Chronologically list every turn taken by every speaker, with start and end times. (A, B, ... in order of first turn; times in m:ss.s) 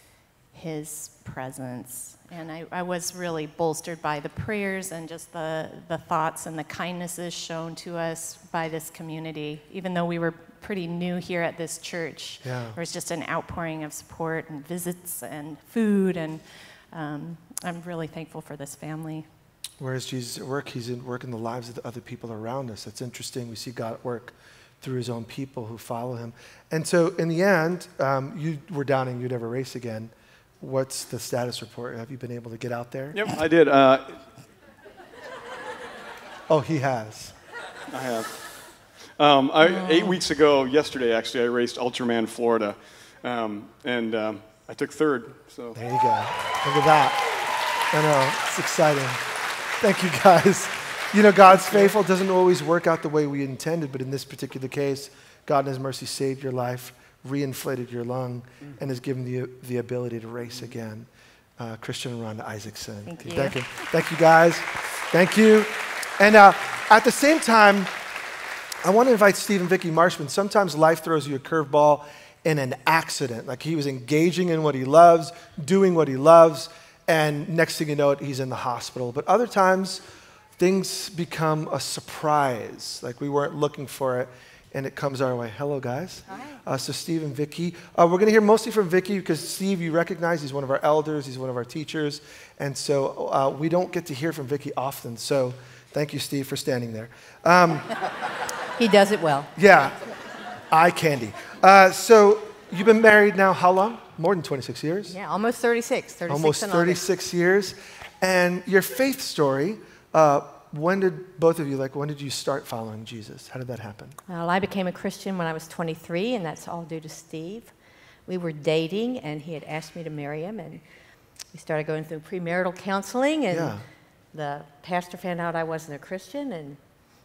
0:00.5-0:19.3 A
0:12.4-0:12.8 B
0:19.8-0:33.2 B
0:33.1-0:34.2 C
0:36.5-0:37.4 B
0:37.9-0:38.4 C
0:39.2-0:45.8 C
0:45.8-0:47.3 B
0:47.9-0:49.2 B
0:49.8-1:07.9 B
1:03.1-1:03.6 D
1:08.8-1:20.0 B
1:20.6-1:38.0 B
1:26.3-1:26.6 D
1:38.8-1:39.5 D
1:39.6-1:40.0 B
1:40.7-1:45.2 B
1:45.1-1:47.0 D
1:46.3-1:54.2 B
1:54.3-1:57.7 D
1:58.3-2:00.8 D
2:01.5-2:03.8 D
2:03.5-2:03.8 B
2:04.3-2:06.8 D